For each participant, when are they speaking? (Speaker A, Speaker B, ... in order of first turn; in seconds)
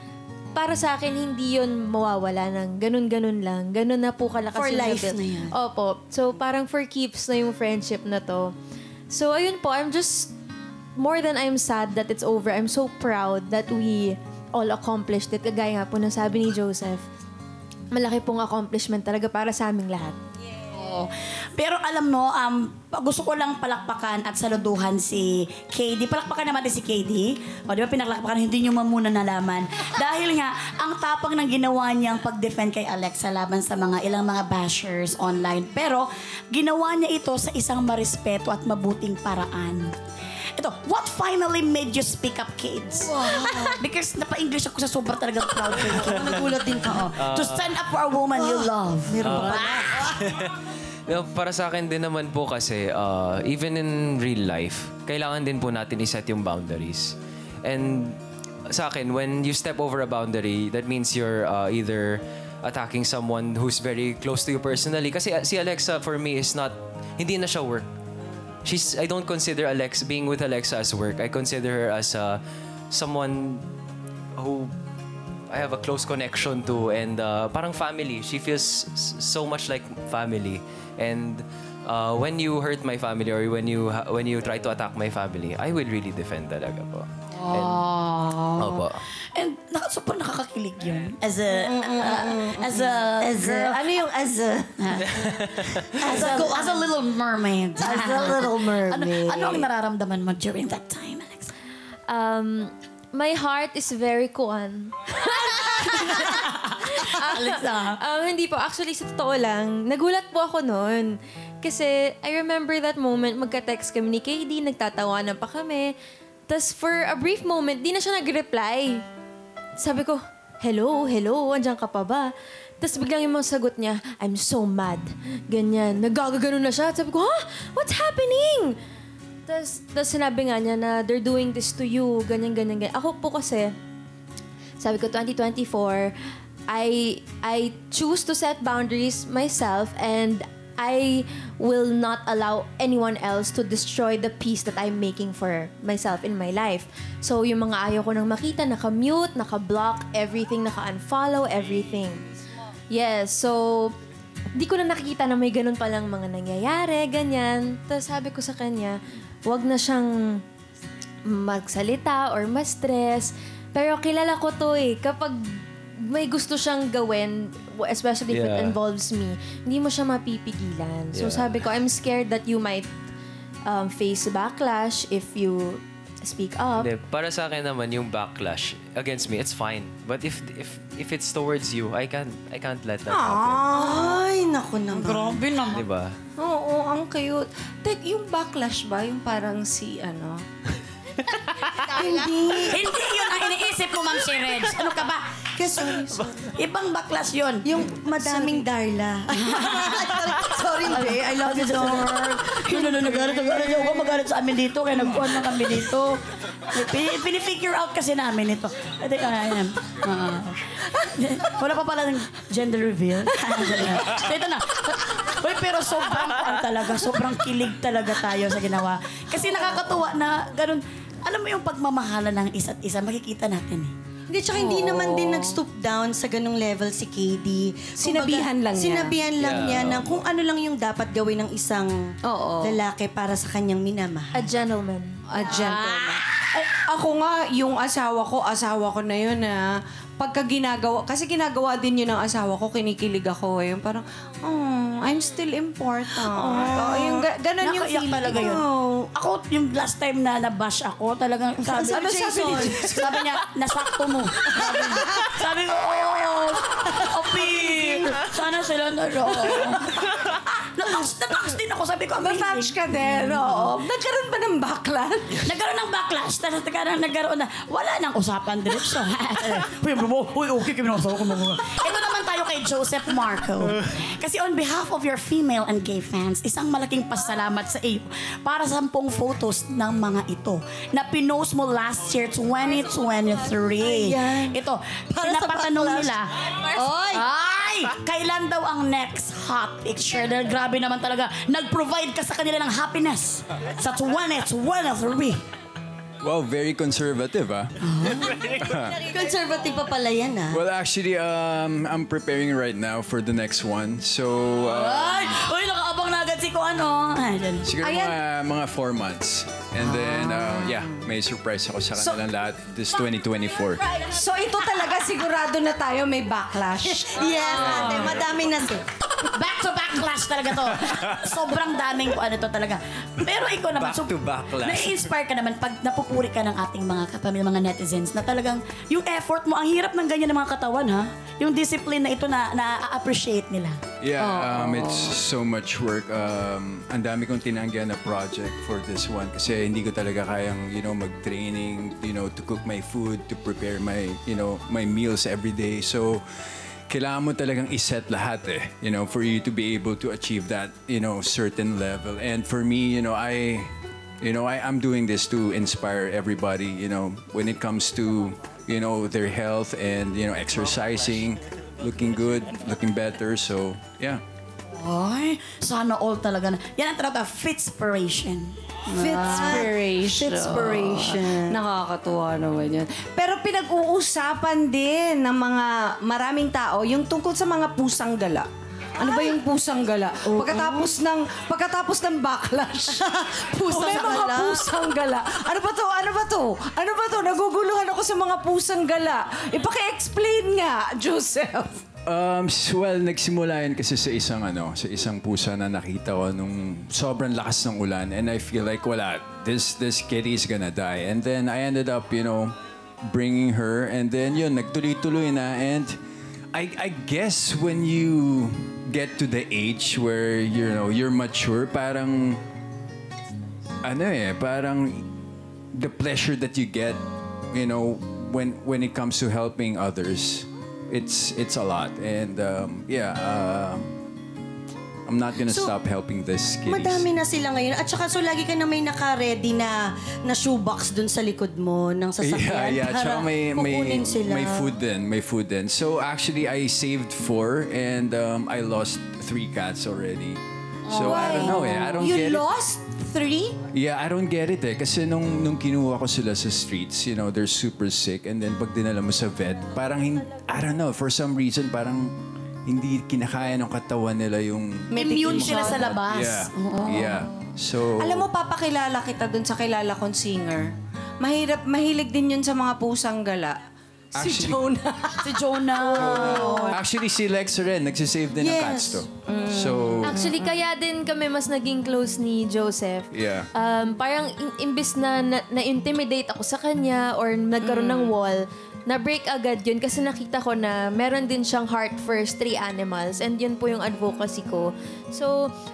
Speaker A: 0.6-8.5, 9.1-10.3, 11.0-17.0, 17.9-20.2, 102.1-115.9, 116.5-119.0, 119.8-128.8, 129.5-133.7, 134.8-136.2, 136.7-152.2, 152.9-153.9, 154.6-160.1, 161.3-165.4, 166.0-172.9, 173.7-176.9, 234.3-235.2, 470.1-485.3
Speaker B: 4.5-5.5, 43.1-43.8, 45.8-47.1, 48.4-50.1, 91.6-94.7, 96.0-96.8, 97.8-99.6, 183.7-185.2, 191.9-192.8, 197.6-204.1, 224.3-231.9, 232.6-234.3, 251.7-253.1, 283.8-284.6, 285.1-286.1, 286.8-287.2, 299.0-300.6, 317.1-318.8, 369.0-371.5, 380.4-380.9, 383.7-384.6, 425.5-425.7, 426.7-434.7, 466.0-466.6, 468.4-469.0
Speaker C: 20.8-39.9, 40.6-50.1, 87.3-93.8, 94.8-101.5, 105.5-108.0, 184.9-185.8, 192.5-195.5, 196.5-197.7, 199.4-206.2, 206.7-223.9, 246.3-263.4, 265.4-295.4, 297.8-298.4, 304.7-307.7, 319.3-333.8, 364.7-369.7, 454.9-457.4, 465.2-466.7
Speaker D: 47.2-47.7, 49.2-67.9, 68.6-73.7, 74.4-74.7, 75.5-87.9, 88.6-89.0, 95.1-95.9, 168.3-168.8, 171.1-171.7, 176.8-183.7, 185.7-186.2, 229.4-230.2, 323.8-324.8
Speaker E: 183.1-184.2, 185.2-185.4, 186.4-190.4, 191.6-192.0, 195.6-196.4, 224.5-225.6, 228.0-229.2, 232.3-232.8, 235.3-248.7, 262.2-265.4, 307.8-308.2, 314.0-318.1, 334.2-335.1, 369.0-378.5, 379.0-391.8, 440.9-443.5, 458.0-460.7, 461.2-463.6, 464.2-465.3, 466.4-466.8, 469.2-470.6, 477.6-478.1
Speaker F: 296.2-297.7, 298.4-299.0, 300.5-305.4, 307.6-313.8, 334.0-346.2, 346.9-364.2, 392.1-402.5, 403.1-406.0, 406.5-412.4, 413.8-415.1, 415.8-417.0, 417.5-423.9, 425.1-427.1, 432.2-442.5, 443.7-452.1, 452.7-458.3, 464.1-464.7, 466.0-470.2, 473.1-473.5